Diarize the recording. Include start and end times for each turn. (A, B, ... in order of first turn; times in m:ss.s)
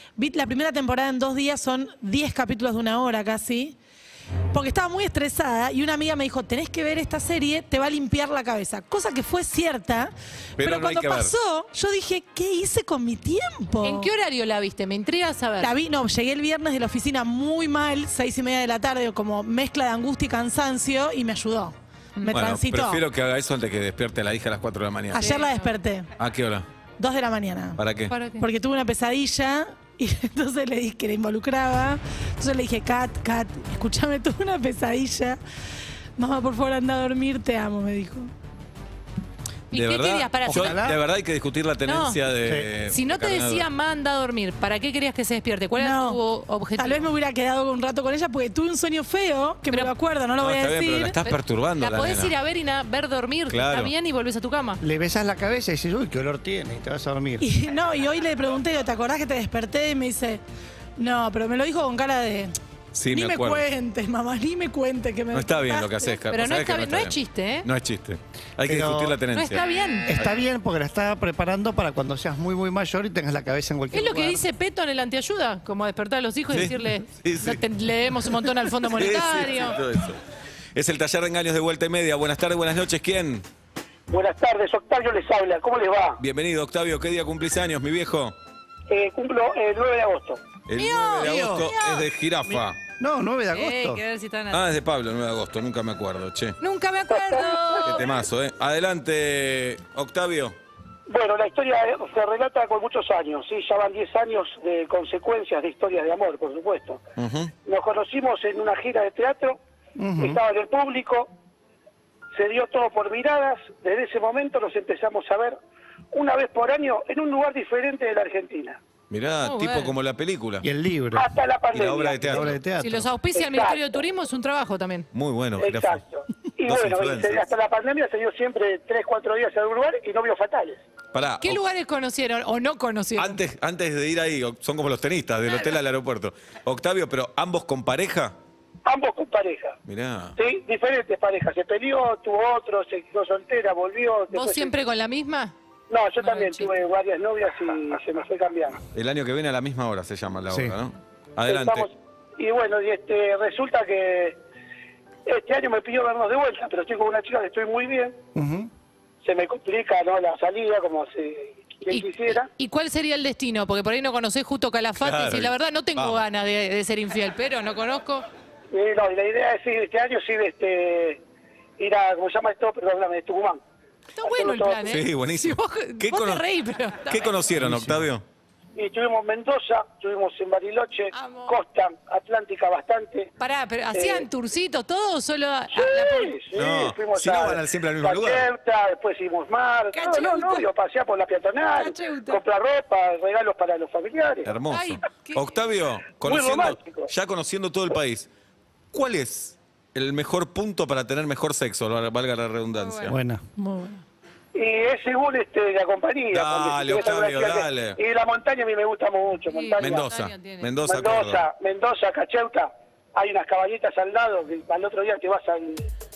0:00.2-0:03.8 A
0:04.5-0:14.1 A
0:10.6-0:11.3 B
0:13.8-0:15.7 C
0:15.6-0:23.0 A
0:22.3-0:25.2 B
0:25.1-0:26.1 A
0:25.1-0:25.7 C
0:26.2-0:26.7 B
0:27.0-0:27.8 A
0:27.8-0:28.2 B
0:28.1-0:28.5 C
0:28.4-0:35.4 A
0:36.2-0:38.3 A
0:39.7-0:40.8 C
0:39.7-0:43.7 B
0:40.5-0:41.0 D
0:41.8-0:42.2 C
0:42.4-0:42.7 D
0:42.9-0:47.0 C
0:45.8-0:46.2 A
0:46.8-0:51.2 A
0:50.4-0:52.3 B
0:51.2-0:54.8 C
0:53.5-0:53.9 B
0:54.8-0:57.5 D
0:57.4-1:00.4 A
1:01.0-1:02.5 A
1:02.9-1:03.6 B
1:03.1-1:06.2 A
1:05.3-1:09.6 B
1:06.3-1:07.7 C
1:08.6-1:09.2 D
1:09.3-1:10.1 C
1:10.1-1:14.4 D
1:13.9-1:19.8 C
1:16.5-1:17.6 B
1:18.7-1:20.2 B
1:20.8-1:23.4 B
1:24.1-1:26.2 E
1:26.2-1:28.4 B
1:28.9-1:30.4 E
1:30.7-1:32.8 B
1:30.8-1:32.0 C
1:31.2-1:31.7 D
1:32.5-1:34.0 D
1:33.5-1:34.6 C
1:34.5-1:36.6 B
1:36.6-1:38.0 C
1:37.1-1:38.0 E
1:37.8-1:40.5 B
1:41.1-1:47.0 E
1:47.2-1:47.5 B
1:47.6-1:49.6 E
1:50.0-1:50.4 D
1:50.2-1:51.3 E
1:52.4-1:55.6 E
1:56.1-1:58.8 E
1:59.1-2:00.7 B
1:59.4-1:59.9 C
2:00.6-2:01.3 D
2:01.1-2:02.5 E
2:01.7-2:02.6 B
2:02.2-2:03.1 D
2:02.8-2:05.1 C
2:03.4-2:04.0 E
2:05.1-2:06.0 B
2:05.6-2:10.8 E
2:06.6-2:07.5 B
2:11.1-2:11.6 B
2:11.4-2:13.4 C
2:13.2-2:18.3 B
2:18.8-2:19.8 E
2:19.9-2:20.4 B
2:20.4-2:24.7 E
2:24.3-2:25.5 C
2:25.9-2:28.8 E
2:26.2-2:26.7 C
2:28.9-2:31.9 B
2:30.5-2:30.8 D
2:31.5-2:34.4 E
2:35.2-2:38.2 E
2:38.4-2:38.7 D
2:39.2-2:42.5 E
2:41.9-2:48.2 C
2:45.0-2:46.2 B
2:48.7-2:51.2 E
2:51.8-2:53.6 E
2:54.2-2:57.4 C
2:54.2-2:55.0 E
2:54.9-2:56.4 B
2:57.1-2:58.2 B
2:57.6-2:58.0 D
2:58.8-3:03.3 E
3:01.1-3:01.6 C
3:03.4-3:06.4 C
3:04.0-3:04.3 E
3:05.7-3:14.5 E
3:06.5-3:08.5 B
3:09.9-3:10.7 C
3:11.8-3:12.4 C
3:14.4-3:18.3 B
3:14.7-3:15.6 C
3:16.2-3:17.1 E
3:18.9-3:23.2 B
3:22.8-3:23.1 C
3:23.1-3:23.4 D
3:23.6-3:24.0 A
3:24.5-3:30.1 E
3:26.3-3:28.0 B
3:29.5-3:30.7 C
3:29.8-3:31.4 B
3:30.9-3:35.9 E